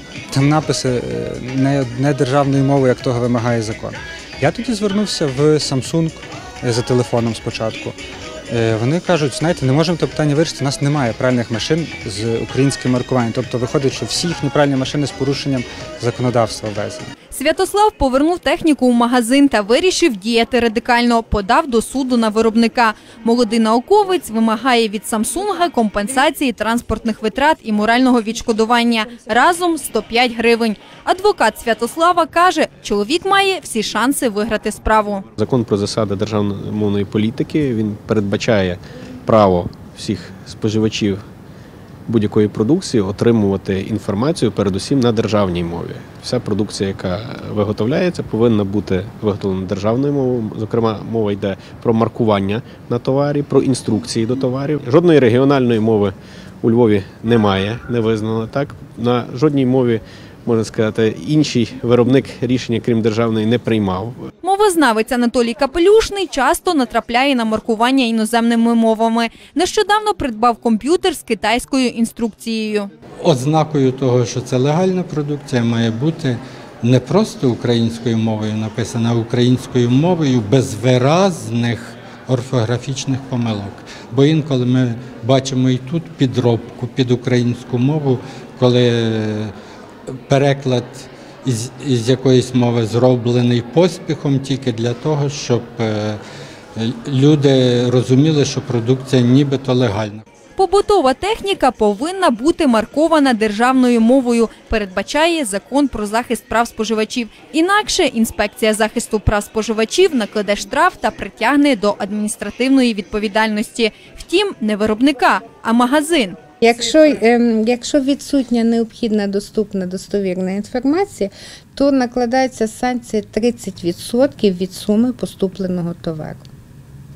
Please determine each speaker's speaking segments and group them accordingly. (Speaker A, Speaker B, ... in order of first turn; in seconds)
Speaker A: 0.3-8.0, 8.5-17.1
Speaker B: 17.3-35.2, 64.4-72.9, 100.6-116.4
Speaker C: 35.4-41.2, 42.1-64.3
Speaker D: 73.2-89.5, 90.3-96.2, 96.8-100.2
Speaker E: 116.6-126.5